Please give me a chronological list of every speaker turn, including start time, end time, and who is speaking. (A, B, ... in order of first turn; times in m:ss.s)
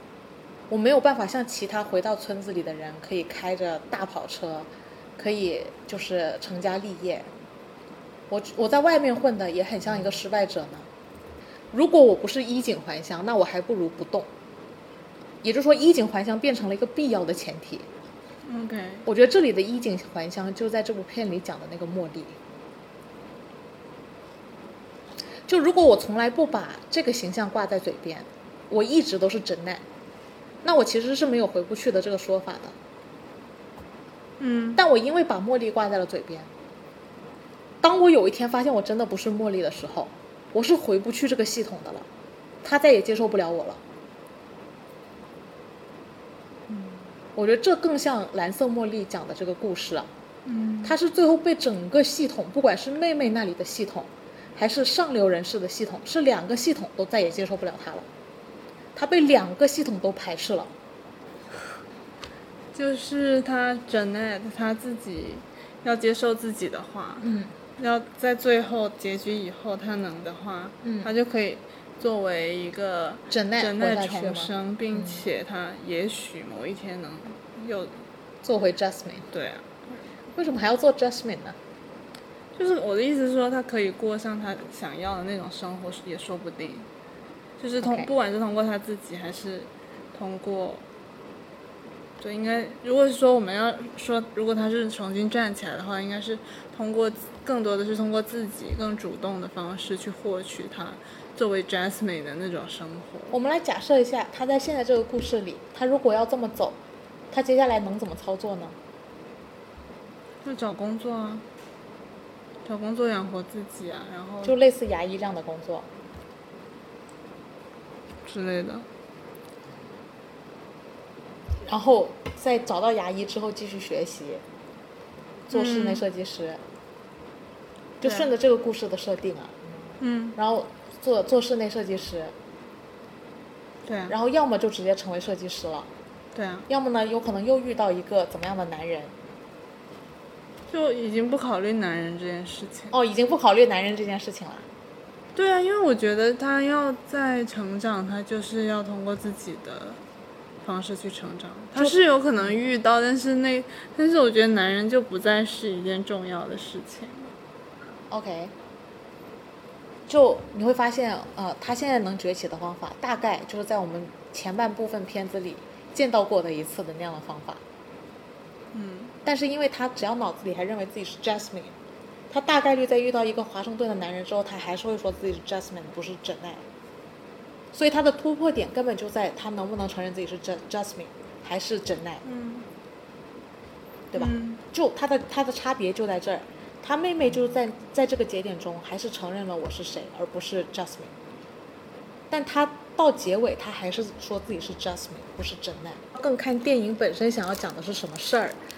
0:00.7-0:07.3 A
0:08.3-0:10.9 A
0:11.7-0:14.3 A
0:15.4-0:17.8 A
0:18.4-0:19.1 B
0:19.1-0:22.3 A
0:25.5-0:29.8 A
0:30.6-0:32.7 A
0:34.4-0:34.8 B
0:34.8-0:36.5 A
0:37.8-0:42.1 A
0:42.6-0:43.8 A
0:47.4-0:50.1 A
0:50.4-0:51.0 B
0:50.8-0:58.1 A
0:59.0-1:00.7 A
1:02.7-1:17.9 B
1:07.2-1:07.5 A
1:10.8-1:11.1 A
1:13.3-1:15.2 A
1:18.4-1:19.3 A
1:19.3-1:19.7 B
1:20.4-1:21.6 A
1:22.6-1:26.9 B
1:27.6-1:30.8 B
1:27.8-1:28.1 A
1:32.2-1:43.4 B
1:43.3-1:46.8 A
1:47.3-1:48.8 A
1:50.4-1:51.4 B
1:52.6-1:54.6 B
1:54.4-1:55.9 A
1:58.2-1:58.9 B
2:01.6-2:04.4 A
2:05.5-2:06.6 A
2:05.5-2:06.0 B
2:08.0-2:12.3 A
2:08.0-2:08.3 B
2:10.0-2:10.4 B
2:13.9-2:14.1 B
2:14.1-2:15.9 A
2:16.3-2:16.7 B
2:16.7-2:19.1 A
2:20.7-2:22.9 B
2:22.9-2:24.7 A
2:25.4-2:30.0 B
2:30.6-2:37.3 B
2:31.8-2:32.5 A
2:38.1-2:38.5 A
2:40.1-2:47.6 A
2:48.7-2:49.1 B
2:49.2-2:51.7 A
2:52.3-2:56.6 A
2:57.7-3:02.2 A
3:02.2-3:02.7 B
3:04.1-3:11.1 A
3:04.2-3:04.6 B
3:12.3-3:18.6 A